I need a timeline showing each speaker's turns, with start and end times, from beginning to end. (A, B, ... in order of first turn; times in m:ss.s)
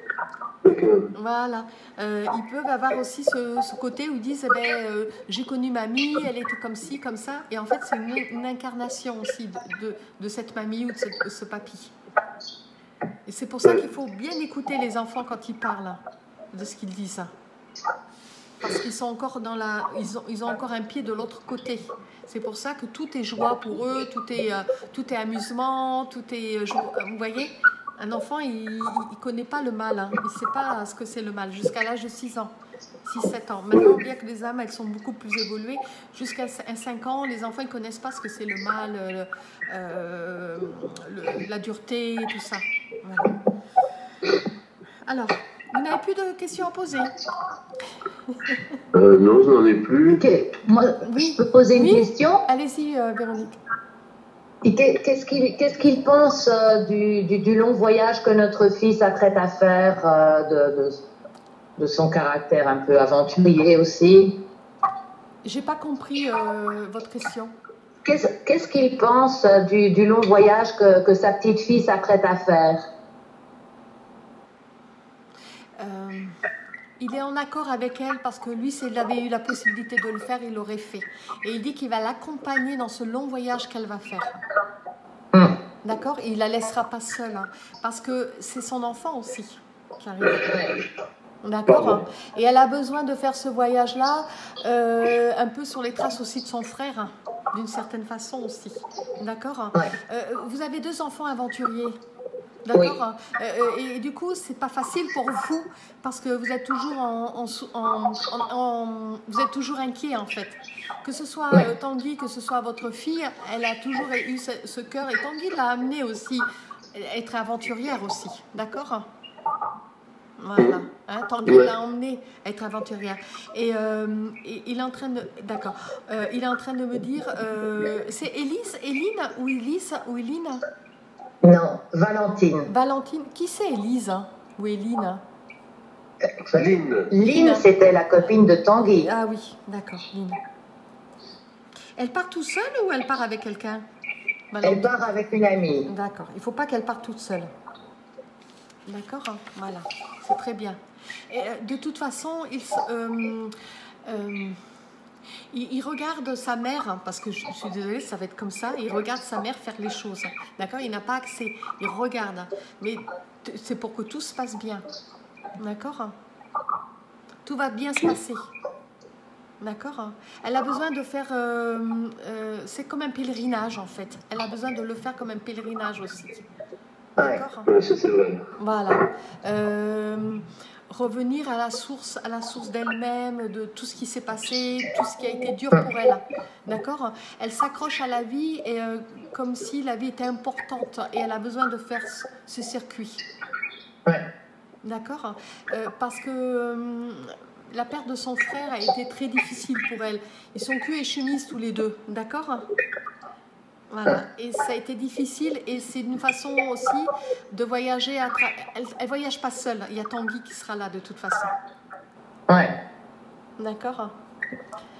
0:00.6-0:01.1 A
0:01.1-0:11.9 B
0:13.2-0:16.0 B
0:16.5-0:17.3 B
0:18.6-0:32.5 B
0:33.0-0:43.3 B
0:33.7-0:34.0 A
0:45.0-0:47.2 B
0:48.9-0:50.2 A
0:50.2-0:52.4 C
0:51.0-0:53.6 B
0:54.6-1:01.0 C
1:01.8-1:04.4 C
1:05.4-1:07.5 B
1:08.0-1:12.9 C
1:15.8-1:16.4 B
1:17.0-1:24.4 B
1:25.8-1:30.5 B
1:30.4-1:30.8 C
1:31.4-1:42.0 B
1:31.7-1:32.0 A
1:42.6-1:59.0 B
2:00.4-2:10.6 B
2:01.4-2:01.7 A
2:11.4-2:12.7 C
2:12.7-2:15.2 B
2:16.4-2:19.1 C
2:16.5-2:17.1 A
2:17.2-2:17.7 B
2:19.0-2:20.4 B
2:22.0-2:23.8 B
2:24.5-2:24.9 B
2:24.6-2:25.9 C
2:25.9-2:27.5 B
2:28.9-2:34.6 B
2:35.5-2:44.8 B
2:45.6-2:46.1 B
2:47.4-2:48.5 B
2:49.6-2:56.4 B
2:57.2-2:57.4 C
2:57.2-2:57.7 B
2:57.6-2:58.5 A
2:58.6-3:13.2 B
3:14.8-3:22.6 B
3:23.9-3:31.5 B
3:32.5-3:32.8 C
3:33.6-3:34.1 B